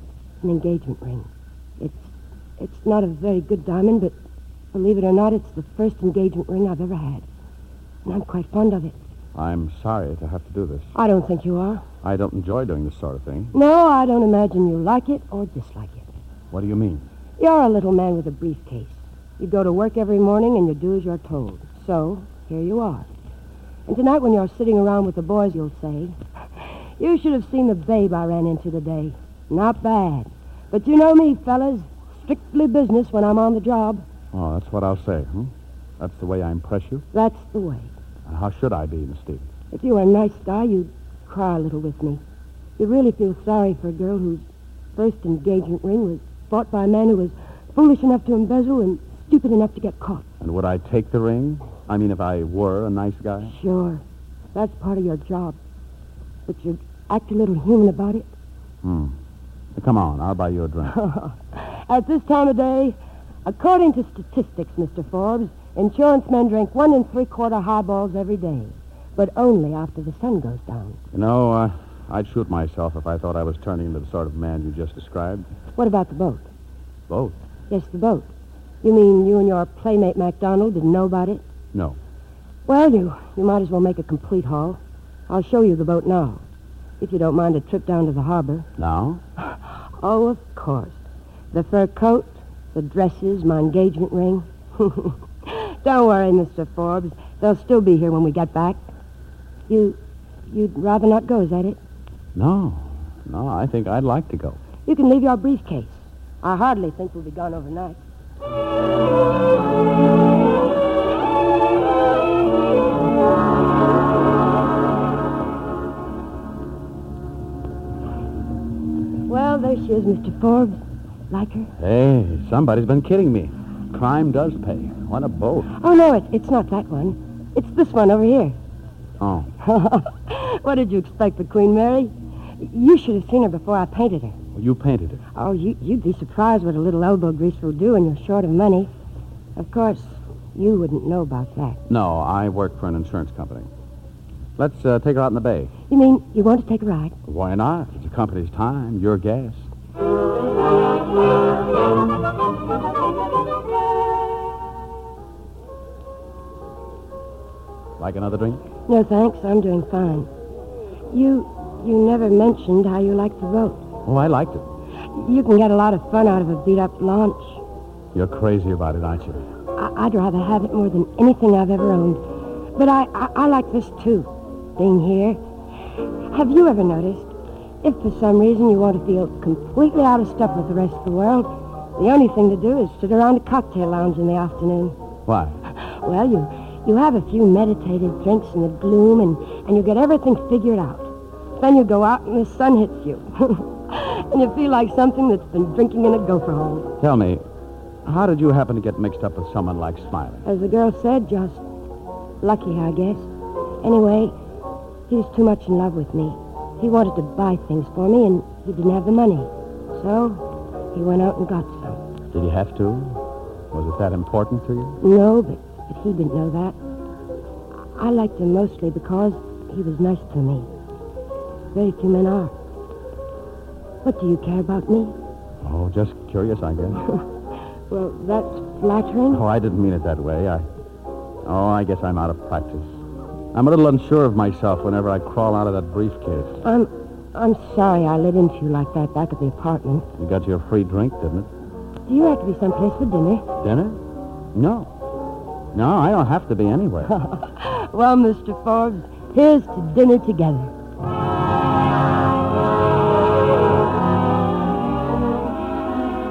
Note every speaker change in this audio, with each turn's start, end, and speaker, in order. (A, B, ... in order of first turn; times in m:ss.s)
0:00.4-0:04.2 A
0:04.7-0:07.2 A
0:08.0-0:09.0 A
0:09.3-0:10.9 B
0:10.9-0:11.8 A
0:12.0-0:13.5 B
0:13.5-0:16.1 A
0:16.5-0:17.1 B
0:17.4-0:23.1 A
0:23.9-0:26.2 A
0:27.0-0:34.0 A
0:34.3-0:37.0 B
0:37.1-0:37.9 A
0:38.3-0:39.5 B
0:39.7-0:42.2 A
0:42.8-0:44.4 A
0:45.0-0:50.2 A
0:50.4-0:53.5 B
0:53.4-0:54.0 A
0:54.5-0:55.6 A
0:56.5-0:58.3 A
0:58.8-0:59.2 B
0:59.8-1:01.0 B
1:00.9-1:11.0 A
1:11.1-1:15.5 B
1:15.8-1:16.5 A
1:17.1-1:17.4 B
1:17.7-1:21.4 A
1:21.7-1:22.0 B
1:22.7-1:26.4 A
1:27.0-1:28.7 A
1:28.8-1:29.2 B
1:29.4-1:38.8 A
1:39.7-1:41.8 A
1:42.4-1:44.6 B
1:44.9-1:48.0 A
1:59.3-2:00.8 A
2:01.3-2:01.7 A
2:01.8-2:05.7 B
2:05.8-2:08.6 A
2:09.2-2:09.5 B
2:09.6-2:14.4 A
2:14.6-2:15.2 B
2:15.3-2:18.9 A
2:19.6-2:21.8 A
2:21.9-2:23.7 B
2:24.6-2:25.7 B
2:25.9-2:27.2 A
2:27.2-2:29.7 B
2:38.0-2:38.6 B
2:38.9-2:40.3 A
2:41.1-2:43.8 A
2:44.0-2:44.7 B
2:45.1-2:47.6 A
2:48.1-2:49.4 B
2:49.8-2:52.2 A
2:52.8-2:55.4 A
2:56.3-3:05.0 A
3:05.3-3:05.6 B
3:05.8-3:16.9 A
3:17.0-3:17.4 B
3:18.0-3:20.4 B
3:20.4-3:21.6 A
3:22.4-3:23.3 A
3:23.8-3:24.4 A
3:25.1-3:32.0 A
3:32.3-3:33.2 B
3:33.7-3:35.0 B
3:35.0-3:36.8 A
3:38.0-3:40.7 A
3:41.7-3:42.5 A
3:44.0-3:45.2 A
3:45.6-3:47.0 B
3:47.9-3:49.4 A
3:49.3-3:50.7 B
3:51.4-3:52.9 B
3:53.5-3:56.6 B
3:56.6-4:00.1 A
4:00.2-4:01.5 B
4:02.1-4:03.5 A
4:03.6-4:04.0 B
4:04.5-4:04.9 B
4:05.7-4:07.1 B
4:07.1-4:10.7 A